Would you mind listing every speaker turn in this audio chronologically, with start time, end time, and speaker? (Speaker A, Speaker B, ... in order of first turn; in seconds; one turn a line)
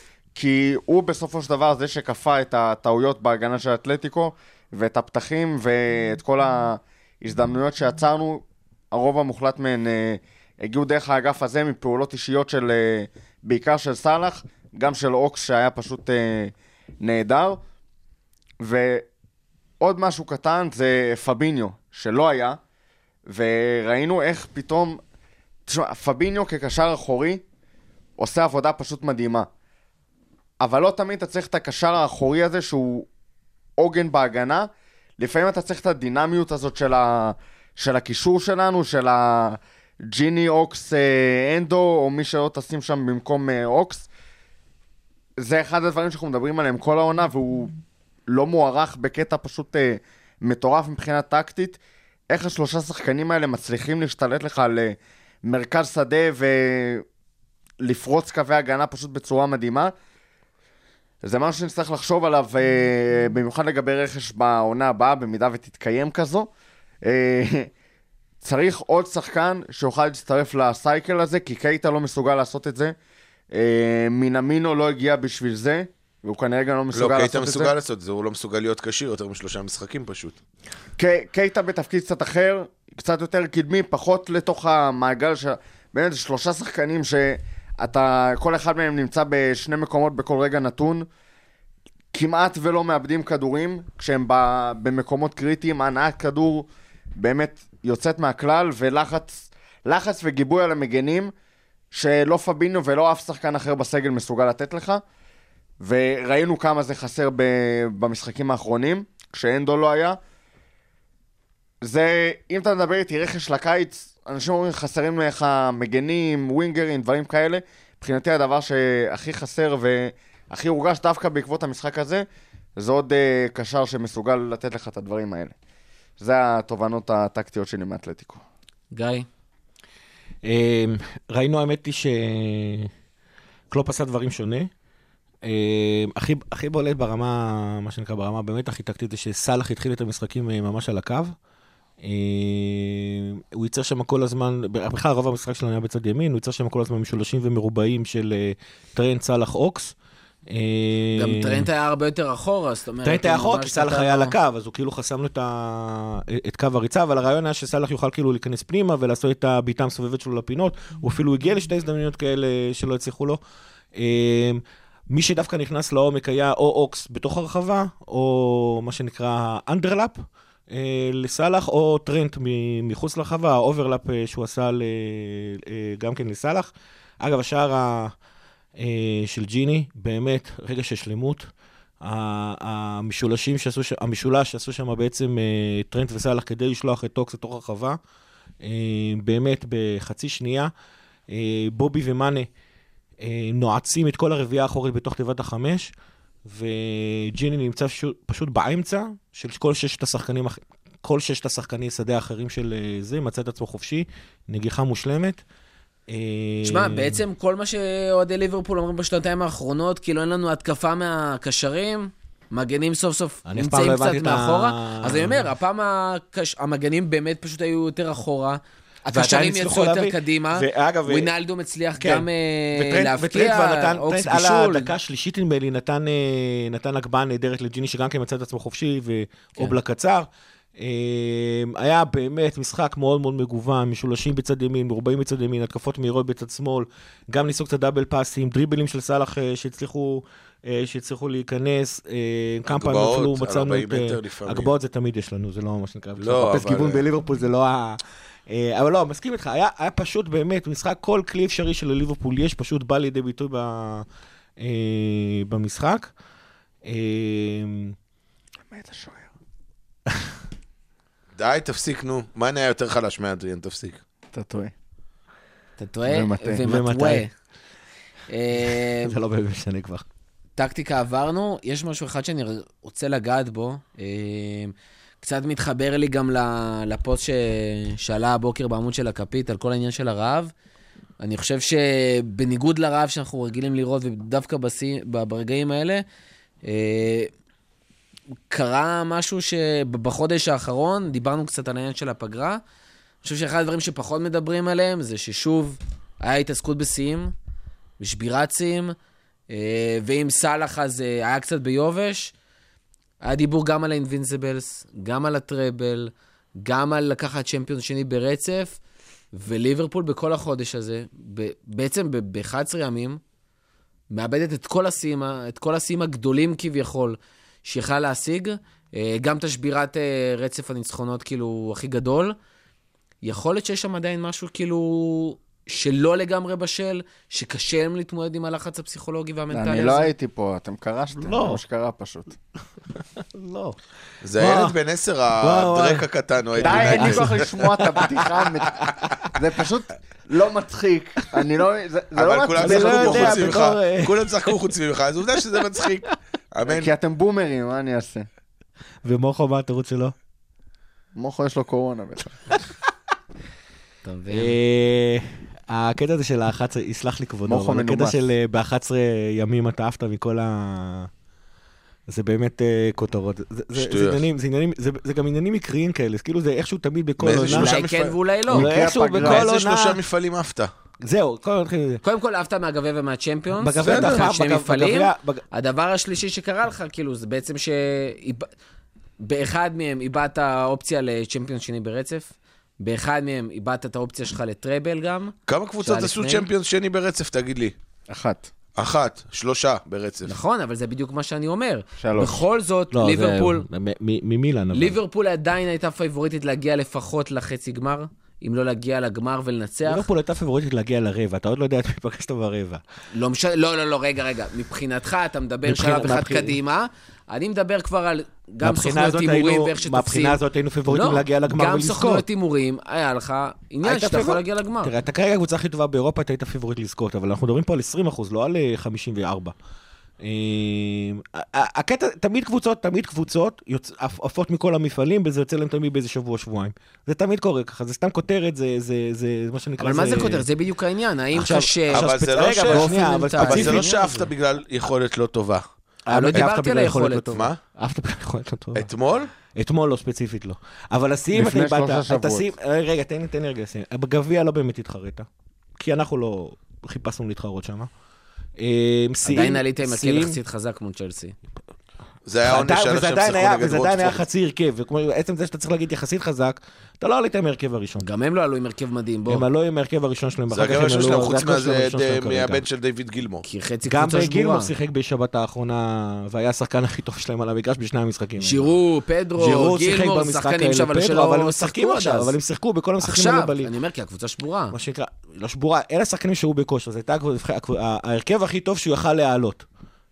Speaker A: 0.3-17.6
Speaker A: 18.6-19.1
Speaker A: 19.8-22.6
Speaker A: 23.3-25.0
Speaker A: 25.7-27.4
Speaker A: 28.2-29.5
Speaker A: 30.6-33.1
Speaker A: 33.8-34.7
Speaker A: 35.2-44.1
Speaker A: 45.4-47.8
Speaker A: 48.3-57.0
Speaker A: 57.8-59.9
Speaker A: 61.2-66.5
Speaker A: 67.0-67.7
Speaker A: 68.4-72.9
Speaker A: 73.5-77.7
Speaker B: 76.9-80.4
Speaker A: 81.0-91.0
Speaker A: 92.1-101.3
Speaker A: 101.9-105.0
Speaker A: 105.8-110.2
Speaker A: 111.8-122.2
Speaker A: 122.8-125.5
Speaker A: 126.2-128.4
Speaker C: 128.9-129.2
Speaker D: 130.4-132.9
Speaker D: 133.7-134.7
Speaker D: 135.4-141.3
Speaker D: 142.0-149.9
Speaker D: 150.5-151.7
Speaker C: 151.1-154.3
Speaker D: 153.0-163.4
Speaker D: 163.9-178.1
Speaker D: 178.8-181.5
Speaker D: 182.0-188.0
Speaker D: 188.6-190.7
Speaker D: 191.3-192.5
Speaker D: 193.2-195.9
Speaker D: 196.4-205.4
Speaker D: 206.1-207.2
Speaker C: 206.6-224.9
Speaker D: 213.4-215.5
Speaker D: 219.1-221.3
Speaker D: 222.0-254.1
Speaker B: 242.7-244.7
Speaker B: 246.2-247.1
Speaker D: 254.6-256.1
Speaker D: 256.8-257.9
Speaker A: 258.7-259.3
Speaker B: 261.3-264.0
Speaker A: 264.3-264.7
Speaker C: 265.8-267.3
Speaker A: 266.1-266.6
Speaker D: 266.6-267.2
Speaker C: 268.3-269.1
Speaker D: 268.6-270.0
Speaker C: 270.6-280.5
Speaker C: 281.2-286.0
Speaker C: 286.6-287.3
Speaker C: 288.5-292.6
Speaker C: 293.2-297.3
Speaker C: 298.0-298.9
Speaker C: 299.5-302.3
Speaker C: 303.2-308.8
Speaker C: 309.3-313.2
Speaker C: 314.1-322.4
Speaker C: 323.2-330.1
Speaker A: 329.5-332.4
Speaker D: 331.2-331.6
Speaker D: 333.3-333.8
Speaker B: 334.2-337.6
Speaker D: 334.4-334.7
Speaker D: 335.4-339.1
Speaker A: 336.6-343.6
Speaker B: 342.1-346.9
Speaker D: 342.6-344.5
Speaker A: 346.6-348.3
Speaker D: 349.0-350.1
Speaker A: 351.1-352.6
Speaker C: 354.0-354.6
Speaker D: 354.3-361.1
Speaker A: 357.4-358.2
Speaker D: 362.1-367.8
Speaker B: 363.7-364.3
Speaker B: 367.2-368.1
Speaker C: 367.4-368.7
Speaker A: 368.5-369.5
Speaker D: 368.5-370.0
Speaker B: 369.2-370.7
Speaker D: 371.0-372.0
Speaker C: 372.0-378.5
Speaker D: 373.6-375.4
Speaker B: 373.8-374.2
Speaker C: 379.2-386.5
Speaker B: 385.5-387.7
Speaker A: 388.1-388.4
Speaker B: 388.8-390.4
Speaker C: 390.2-393.6
Speaker A: 392.0-392.4
Speaker D: 392.9-395.0
Speaker C: 394.7-400.1
Speaker D: 399.9-402.8
Speaker C: 403.1-414.9
Speaker D: 405.6-406.6
Speaker D: 408.6-412.2
Speaker D: 413.8-419.5
Speaker D: 420.2-430.4
Speaker C: 429.8-432.1
Speaker D: 431.3-434.3
Speaker B: 431.9-432.9
Speaker C: 432.6-434.0
Speaker B: 433.4-435.6
Speaker D: 436.1-438.9
Speaker C: 436.1-437.3
Speaker B: 437.3-437.6
Speaker B: 438.7-439.3
Speaker D: 439.5-445.3
Speaker A: 441.3-442.4
Speaker D: 445.8-447.9
Speaker D: 448.6-450.4
Speaker C: 449.2-451.4
Speaker B: 452.2-454.2
Speaker D: 452.4-458.1
Speaker C: 458.0-459.4
Speaker D: 459.3-462.6
Speaker B: 460.5-463.4
Speaker C: 463.4-464.7
Speaker D: 463.9-468.7
Speaker C: 468.4-472.3
Speaker D: 469.4-473.7
Speaker C: 473.0-474.7
Speaker D: 474.7-479.6